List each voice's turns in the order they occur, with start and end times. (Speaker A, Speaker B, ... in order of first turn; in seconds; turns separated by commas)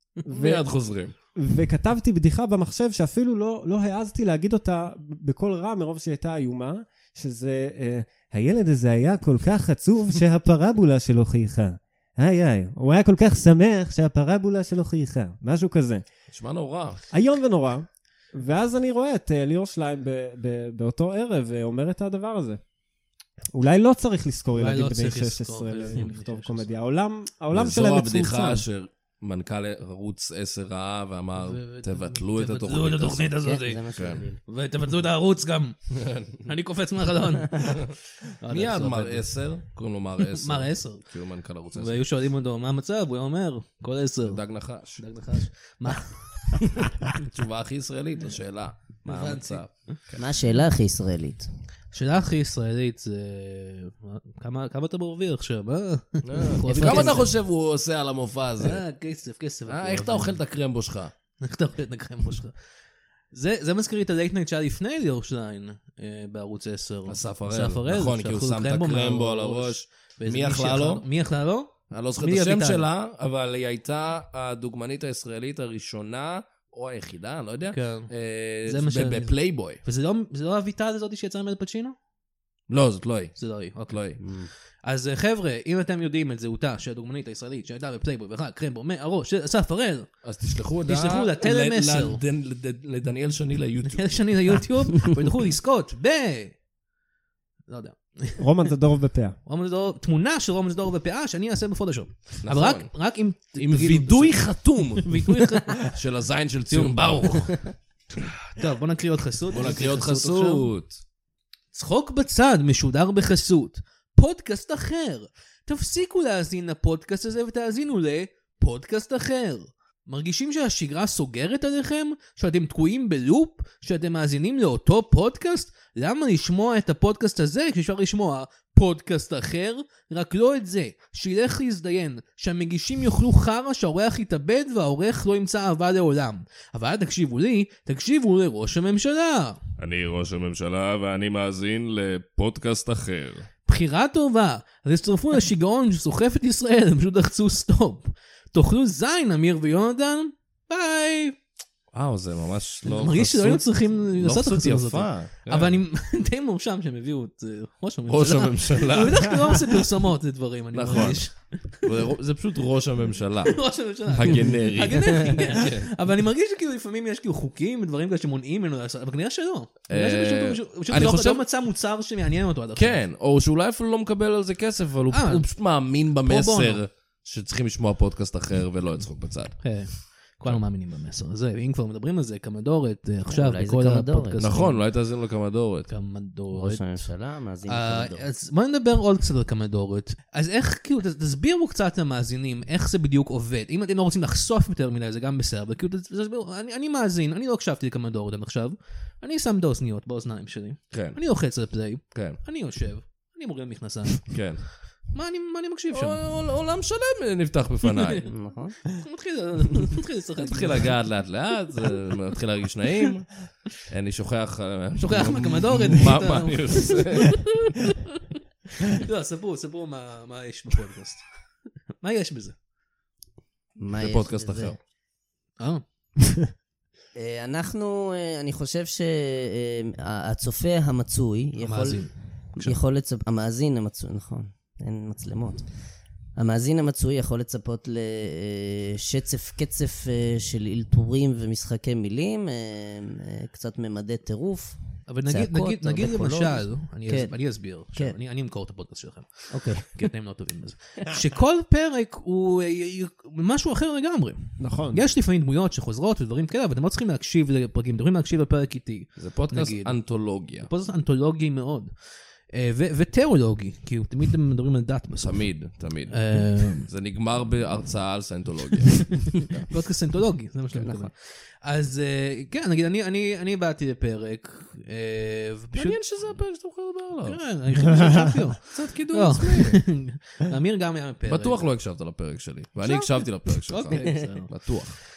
Speaker A: 0.2-0.7, Speaker B: 0.3-1.1, Speaker A: 1.3-16.0, Speaker B: 16.3-17.0, Speaker A: 17.1-22.6, Speaker A: 23.5-28.6, Speaker C: 24.5-26.7, Speaker B: 27.5-33.4, Speaker C: 31.4-33.8, Speaker D: 33.4-34.4, Speaker B: 33.9-34.2, Speaker C: 34.4-35.8, Speaker B: 35.9-36.4, Speaker C: 36.4-39.3, Speaker B: 37.6-37.9, Speaker B: 38.5-42.0, Speaker C: 40.2-41.0, Speaker C: 41.7-46.8, Speaker B: 44.2-45.0, Speaker B: 46.8-50.2, Speaker C: 49.0-50.0, Speaker D: 50.2-51.5, Speaker C: 51.9-57.3, Speaker B: 56.2-58.8, Speaker D: 56.6-57.3, Speaker C: 58.6-60.4, Speaker B: 59.7-61.1, Speaker C: 61.4-62.5, Speaker C: 63.3-72.8, Speaker B: 67.1-71.0, Speaker B: 71.9-79.8, Speaker C: 77.7-78.1, Speaker C: 78.7-82.0, Speaker B: 82.7-84.2, Speaker C: 83.4-84.2, Speaker D: 84.2-84.5, Speaker C: 84.8-90.1, Speaker B: 90.2-94.2, Speaker C: 90.8-92.2, Speaker C: 93.9-96.5, Speaker C: 97.7-98.6, Speaker A: 98.4-99.3, Speaker C: 99.5-106.0, Speaker B: 102.4-102.9, Speaker B: 103.5-107.6, Speaker C: 106.7-107.6, Speaker C: 108.5-110.7, Speaker B: 109.5-111.0, Speaker C: 111.7-139.6, Speaker B: 139.8-143.5, Speaker C: 143.7-151.3, Speaker B: 151.9-155.8, Speaker C: 152.8-161.9, Speaker B: 158.1-159.5, Speaker B: 160.7-165.9, Speaker C: 163.4-173.0, Speaker B: 169.9-171.4, Speaker B: 172.8-179.7, Speaker C: 175.1-175.5, Speaker C: 176.2-176.8, Speaker C: 179.6-184.8, Speaker D: 183.2-184.6, Speaker B: 184.4-185.9, Speaker C: 185.9-187.1, Speaker D: 186.5-188.2, Speaker C: 187.7-204.5, Speaker B: 200.9-201.2, Speaker B: 202.1-202.4, Speaker B: 204.3-204.6, Speaker C: 205.1-206.2, Speaker B: 205.9-208.3, Speaker C: 207.8-208.3, Speaker D: 208.3-208.7, Speaker C: 208.9-210.9, Speaker B: 210.4-217.4, Speaker C: 215.0-221.2, Speaker C: 222.0-222.6, Speaker D: 223.8-224.7, Speaker B: 224.0-224.8, Speaker D: 227.1-235.6, Speaker C: 231.6-232.8, Speaker D: 236.3-247.3, Speaker C: 245.1-265.4, Speaker D: 249.5-249.9, Speaker A: 254.6-255.0, Speaker B: 259.2-260.7, Speaker B: 265.2-269.7, Speaker C: 266.1-266.9, Speaker C: 269.3-276.0, Speaker B: 275.7-277.4, Speaker C: 277.2-281.7, Speaker A: 277.9-278.4, Speaker B: 278.7-279.8, Speaker B: 281.2-285.0, Speaker C: 282.8-284.8